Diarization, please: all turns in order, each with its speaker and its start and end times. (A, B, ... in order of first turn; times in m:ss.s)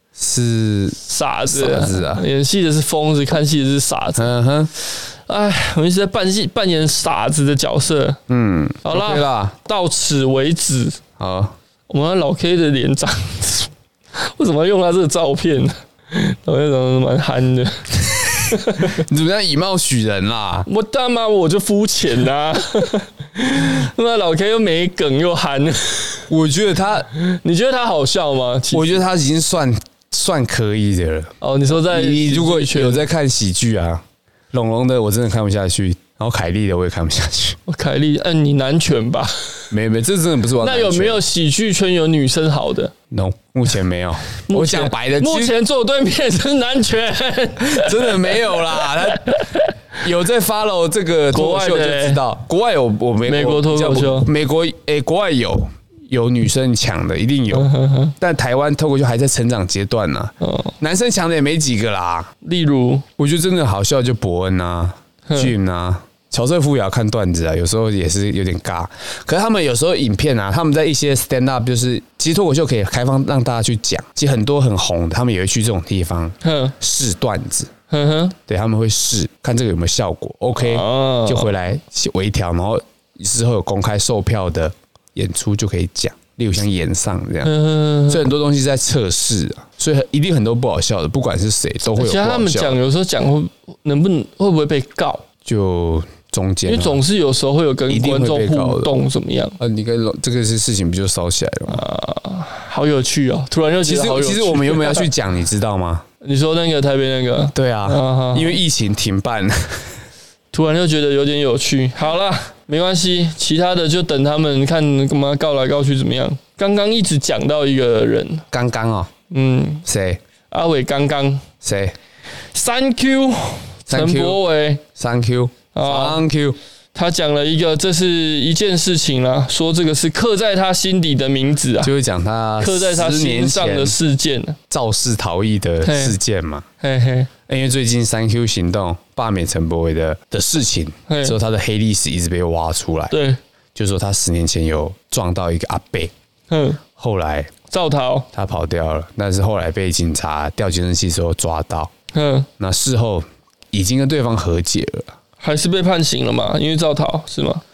0:00.2-0:02.2 A
0:01.0-0:04.3 B
0:04.2-0:04.7 A
0:04.8-0:08.2 B
0:08.3-0:09.6 A
0:08.8-0:11.0 B
0:11.2-0:11.5 A
0:11.9-0:19.0 B
0:18.8-0:20.7 A
0:20.7-0:26.2 B
0:26.3-0:27.1 A
0:27.1-0:29.0 B
0:28.7-0:31.3 A
0:31.4-0:33.0 B
0:31.9-0:37.6 A
0:37.7-0:39.6 B
0:39.7-0:41.2 A
0:40.6-0:42.9 B
0:43.1-0:45.5 A
0:44.5-0:49.7 B
0:47.6-0:49.4 A
0:50.0-1:02.3 A
0:51.3-0:52.2 B
0:53.2-0:54.3 B
0:57.5-0:58.1 B
1:00.4-1:00.7 B
1:02.4-1:03.0 B
1:03.2-1:17.7 A
1:05.3-1:05.5 B
1:16.4-1:16.7 B
1:17.9-1:18.3 B
1:18.5-1:32.8 A
1:20.6-1:21.5 B
1:27.4-1:28.2 B
1:32.0-1:35.2 B
1:35.4-1:37.0 A
1:36.6-1:39.6 B
1:37.9-1:38.9 A
1:39.6-1:41.8 A
1:41.7-1:45.1 B
1:43.8-1:46.0 A
1:46.2-1:48.6 B
1:47.5-1:49.9 A
1:50.5-1:58.4 B
1:58.5-1:59.1 A
1:59.3-1:59.8 B
1:59.8-2:00.2 A
2:00.5-2:01.4 B
2:01.6-2:01.9 A
2:02.5-2:04.8 B
2:03.9-2:06.6 A
2:05.7-2:06.2 B
2:06.9-2:11.9 B
2:11.8-2:13.9 A
2:12.6-2:14.6 B
2:14.7-2:16.6 A
2:15.8-2:16.2 B
2:16.8-2:17.3 B
2:17.5-2:23.1 A
2:21.1-2:21.3 B
2:23.1-2:23.4 B
2:23.7-2:26.1 A
2:26.5-2:26.8 B
2:27.0-2:27.5 A
2:27.7-2:28.3 B
2:28.3-2:31.9 A
2:32.1-2:32.5 B
2:32.6-2:35.1 A
2:35.4-2:37.6 B